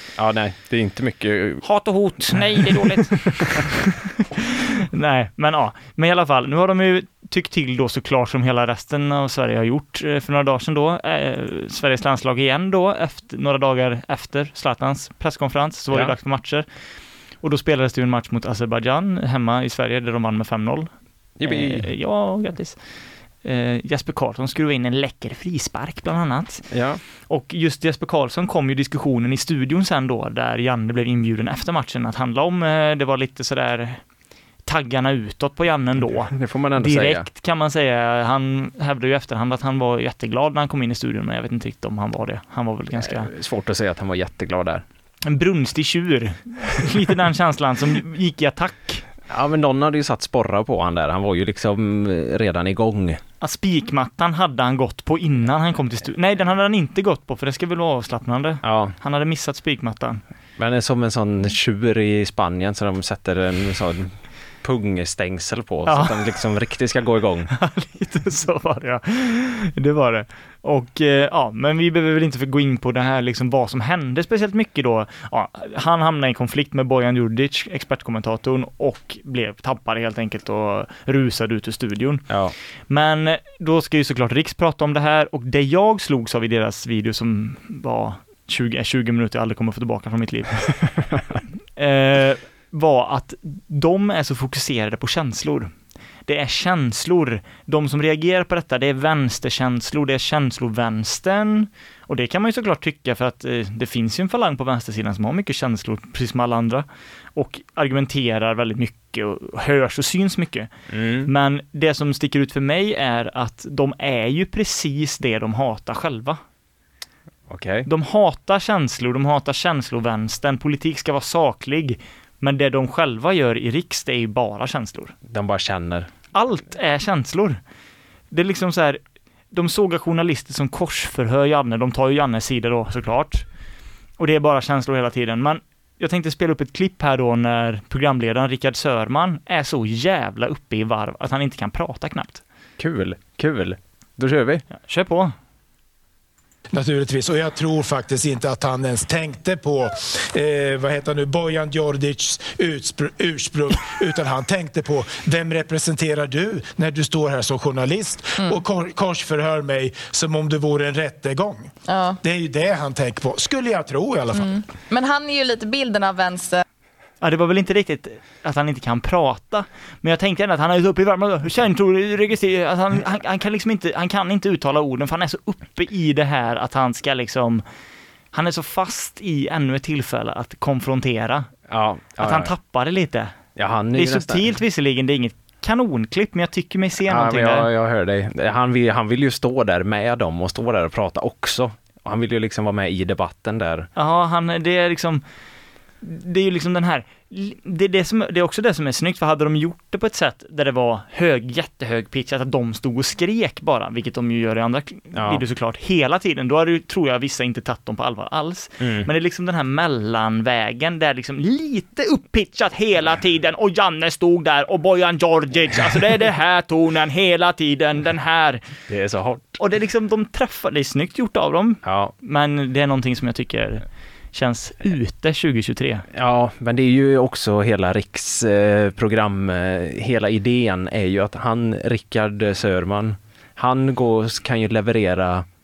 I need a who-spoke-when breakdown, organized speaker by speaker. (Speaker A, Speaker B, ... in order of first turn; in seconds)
Speaker A: 0.2-1.6, 2.3-3.7, 21.4-21.9, 26.7-27.0, 36.3-37.3, 43.0-44.8, 49.3-53.2, 58.6-59.0, 60.6-67.5, 82.3-82.5, 110.9-111.3, 117.5-117.9, 125.3-126.1, 142.8-144.6, 181.7-182.5, 183.6-184.5, 187.1-193.9, 205.1-205.4, 208.8-209.1, 218.9-219.6, 221.8-222.1, 226.1-235.5
Speaker B: 1.6-16.6, 17.4-20.9, 21.4-22.8, 23.4-26.7, 27.3-34.0, 34.6-43.3, 45.2-49.0, 53.4-60.2, 65.9-66.2, 67.5-82.3, 82.9-90.7, 91.8-95.7, 96.3-110.7, 111.3-116.4, 117.9-125.1, 126.3-127.6, 128.3-129.0, 129.5-133.4, 134.2-142.4, 144.7-145.3, 167.2-177.6, 178.3-181.5, 182.2-183.3, 183.9-187.7, 194.0-195.2, 196.0-218.6, 219.6-226.1
Speaker C: 146.7-164.6
Speaker D: 161.9-162.2, 164.3-166.6